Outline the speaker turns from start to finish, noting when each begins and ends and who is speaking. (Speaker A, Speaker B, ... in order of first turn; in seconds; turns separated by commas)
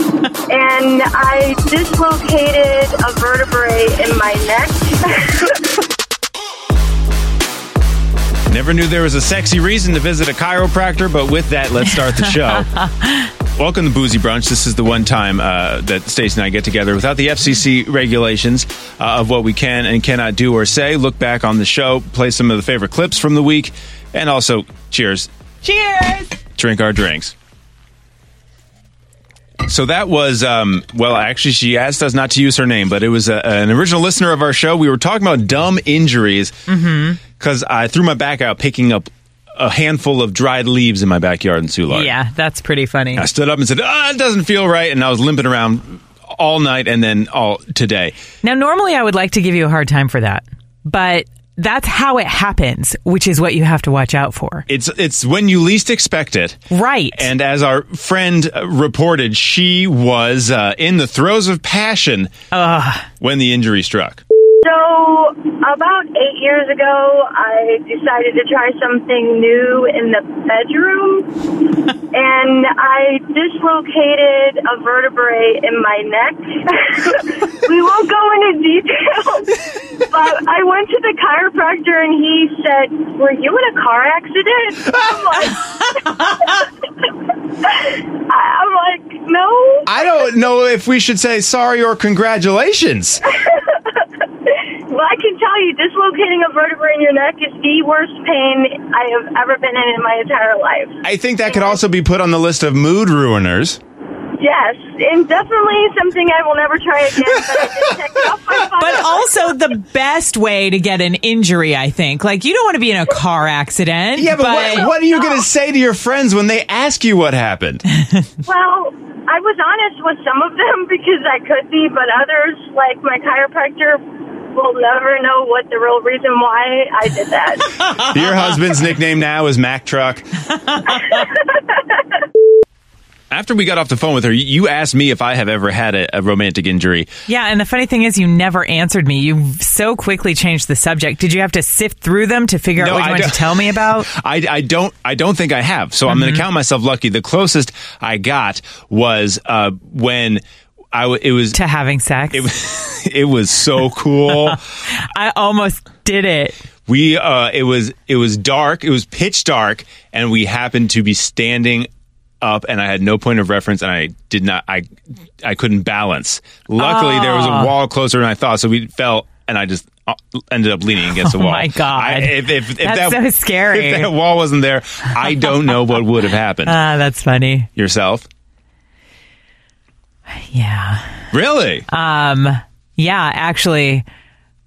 Speaker A: 0.5-5.6, Speaker B: 8.5-12.7, Speaker C: 12.5-13.3, Speaker B: 13.6-25.3, Speaker C: 25.6-26.4, Speaker B: 26.6-27.3, Speaker B: 29.6-36.6, Speaker C: 36.7-37.2, Speaker B: 37.2-42.1, Speaker C: 41.9-43.2, Speaker B: 43.1-48.1, Speaker C: 48.4-54.6, Speaker B: 54.7-56.6, Speaker C: 56.7-57.3, Speaker B: 57.1-62.3, Speaker C: 62.5-63.1, Speaker B: 63.2-64.2, Speaker A: 64.6-87.1, Speaker A: 87.6-90.0, Speaker B: 89.9-93.2, Speaker A: 93.4-101.8, Speaker B: 101.0-103.8, Speaker A: 104.4-109.5, Speaker B: 107.2-107.9, Speaker C: 108.8-114.9, Speaker B: 114.2-117.8, Speaker A: 118.4-128.0, Speaker B: 127.9-130.3, Speaker C: 130.7-131.1, Speaker A: 130.9-132.0, Speaker B: 133.3-137.1, Speaker C: 137.3-144.1, Speaker B: 142.8-151.6, Speaker C: 146.1-146.4, Speaker C: 151.5-152.5, Speaker B: 152.3-154.6, Speaker C: 154.3-156.6, Speaker B: 156.9-161.9, Speaker B: 162.4-176.8, Speaker C: 166.8-167.7, Speaker C: 171.2-174.1, Speaker C: 176.7-177.7, Speaker B: 177.8-178.3, Speaker C: 180.5-181.2, Speaker B: 181.3-181.8, Speaker C: 181.9-184.0